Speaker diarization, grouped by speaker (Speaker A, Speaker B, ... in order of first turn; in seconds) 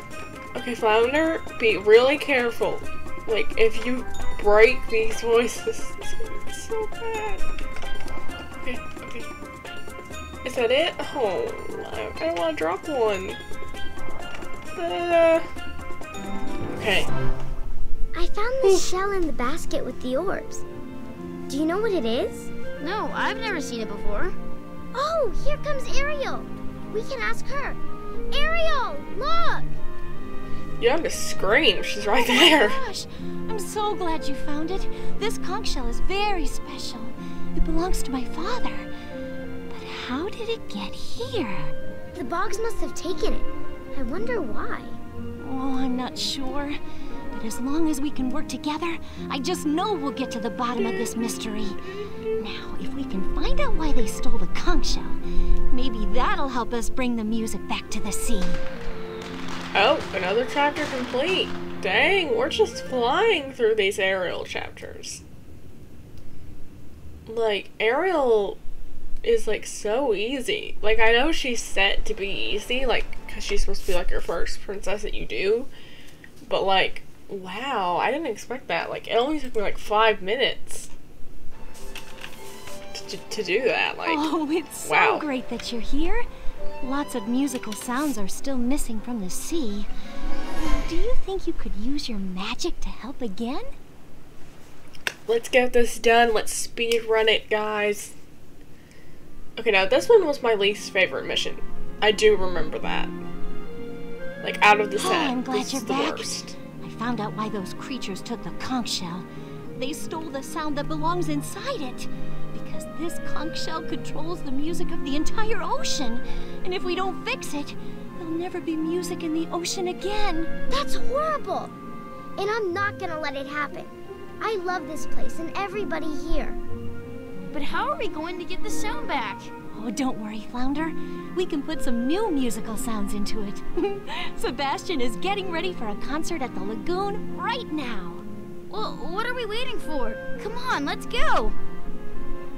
Speaker A: 0.5-7.4, 8.6-9.3, 10.4-13.4, 14.8-15.4, 16.7-17.1, 18.6-18.9, 30.8-32.8, 59.7-65.2, 67.3-68.6, 69.2-75.7, 76.4-80.9, 82.9-84.2, 84.8-85.2, 95.3-98.1, 99.5-103.1, 104.4-106.5
Speaker B: 18.1-20.6, 21.5-22.5, 24.9-27.8, 28.3-29.7, 42.1-45.0, 120.7-121.7, 122.4-126.6
Speaker C: 22.8-24.4, 127.5-129.5, 138.7-141.6
Speaker D: 32.1-38.9, 39.7-41.7, 45.4-46.8, 47.3-51.8, 52.4-55.2, 55.7-58.6, 84.0-86.2, 86.8-89.9, 90.5-93.7, 105.0-109.2, 109.8-120.5, 129.7-138.2